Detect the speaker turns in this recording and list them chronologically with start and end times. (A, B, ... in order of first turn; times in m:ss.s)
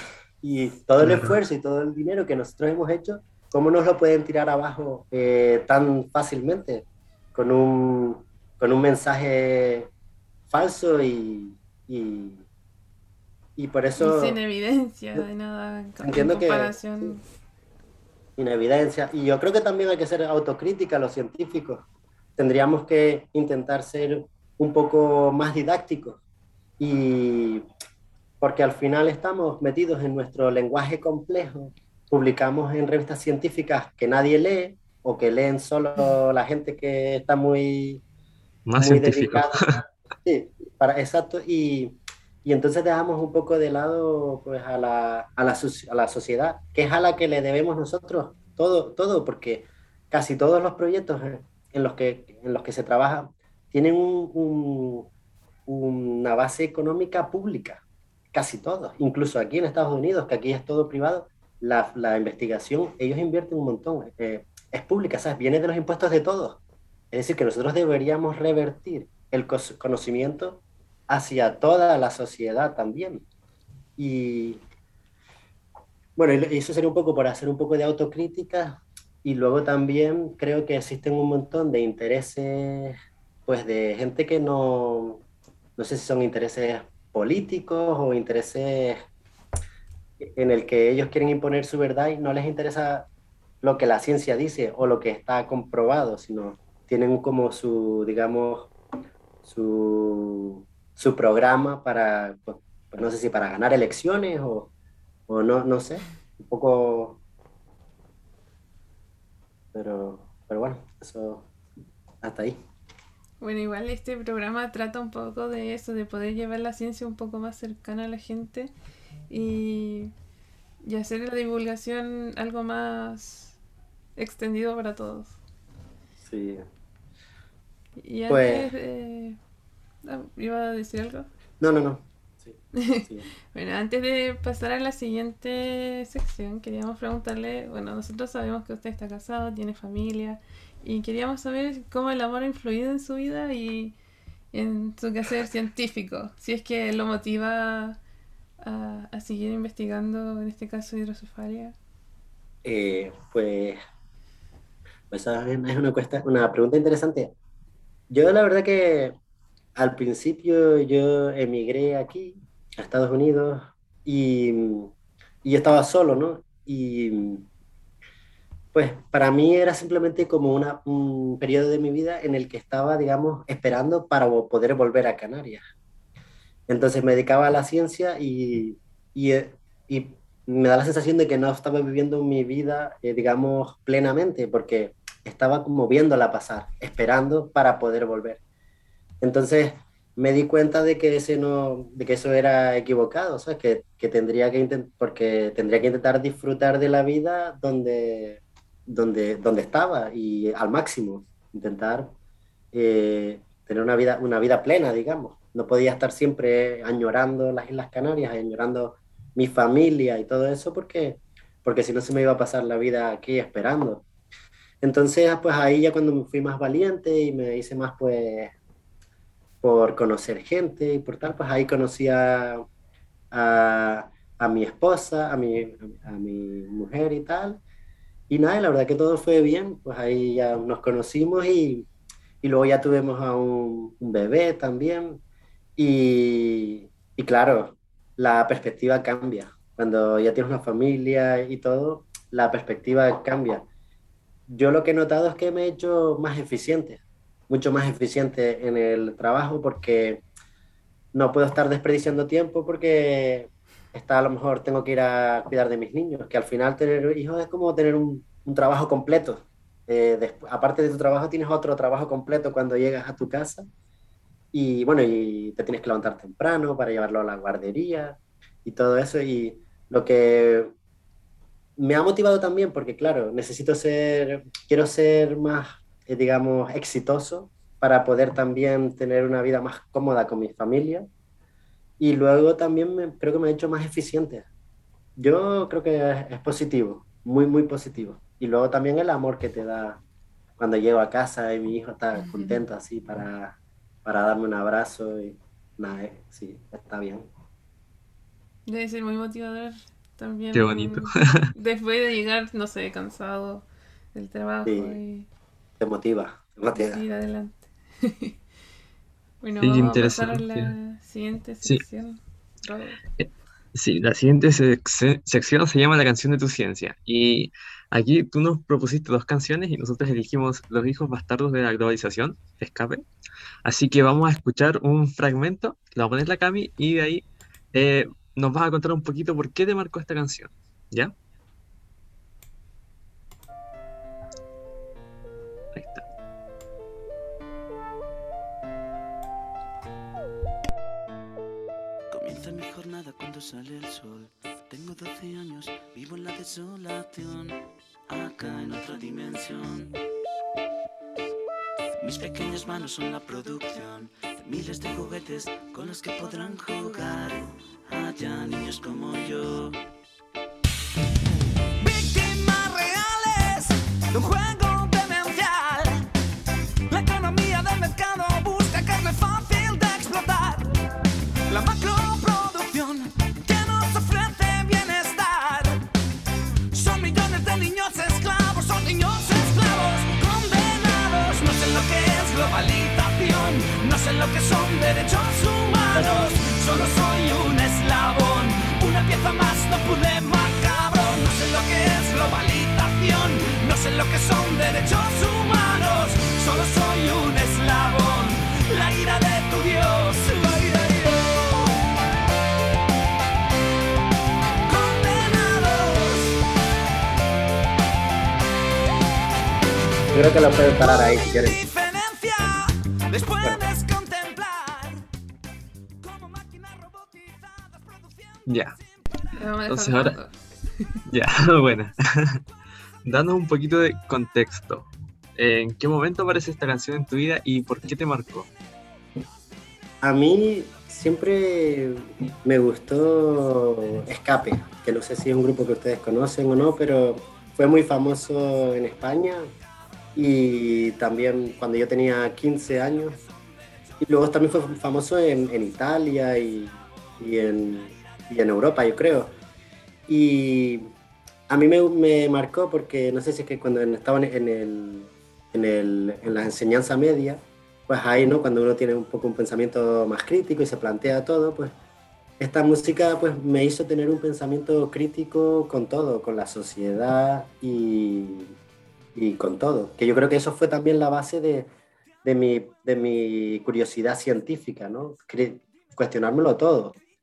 0:00.4-0:09.9 A
0:01.0-0:01.3 B
0:10.5-0:12.4 A
0:13.6-0:14.4 A
0:14.0-0:17.2 C
0:16.0-0:16.8 A
0:18.4-0:21.8 A
0:22.4-0:26.2 A
0:26.8-0:27.6 A
0:28.4-0:38.0 A
0:38.7-0:39.8 B
0:38.8-0:55.1 A
0:55.7-0:57.8 A
0:58.3-1:06.6 A
1:07.1-1:13.2 A
1:14.0-1:14.6 A
1:16.2-1:25.2 A
1:25.8-1:29.0 A
1:30.2-1:33.1 A
1:33.6-1:38.7 A
1:39.4-1:44.7 A
1:45.3-1:47.2 A
1:49.7-1:51.5 A
1:52.2-1:52.6 A
1:53.4-1:58.7 C
1:59.3-2:00.1 C
2:00.8-2:03.6 C
2:04.2-2:05.4 C
2:06.2-2:06.6 A
2:08.0-2:09.4 C
2:08.3-2:08.7 A
2:10.0-2:11.3 C
2:11.6-2:13.3 A
2:12.8-2:24.0 C
2:24.5-2:28.0 C
2:28.6-2:31.8 C
2:32.6-2:33.8 A
2:35.1-2:37.3 A
2:38.1-2:39.2 A
2:39.8-2:44.9 A
2:45.4-2:47.5 A
2:48.7-2:55.6 A
2:56.7-3:08.4 A
3:09.2-3:22.1 A
3:22.7-3:34.0 A
3:34.8-3:38.5 A
3:39.6-3:42.6 A
3:43.3-3:47.6 A
3:48.3-3:51.9 A
3:52.4-3:55.2 A
3:55.8-4:03.7 A
4:04.5-4:10.2 A
4:11.1-4:23.7 A
4:24.5-4:30.7 A
4:31.8-4:41.1 A
4:42.0-4:44.5 A
4:45.2-4:50.0 A
4:50.6-4:57.3 A
4:58.7-5:05.3 C
5:00.5-5:01.5 B
5:04.6-5:05.0 A
5:05.8-5:07.0 A
5:06.7-5:08.4 C
5:09.4-5:13.0 C
5:09.6-5:10.7 B
5:13.2-5:23.0 B
5:23.6-5:31.1 B
5:35.8-5:36.0 B
5:42.1-5:50.0 D
5:52.0-5:59.8 D
6:01.8-6:06.1 D
6:06.9-6:10.7 D
6:11.5-6:15.9 D
6:16.7-6:41.9 D
6:44.7-6:46.5 D
6:50.1-6:51.6 A
6:50.6-6:55.1 D
6:56.0-6:58.4 D
6:58.5-6:58.8 B
6:59.4-7:01.0 C
6:59.7-7:00.2 B
7:01.1-7:02.4 B
7:03.0-7:08.5 B
7:10.0-7:19.5 A
7:20.2-7:23.2 A
7:24.0-7:29.3 A
7:30.1-7:30.9 A
7:31.5-7:41.7 A
7:42.4-7:48.5 A
7:49.2-7:51.7 A
7:52.2-7:57.0 A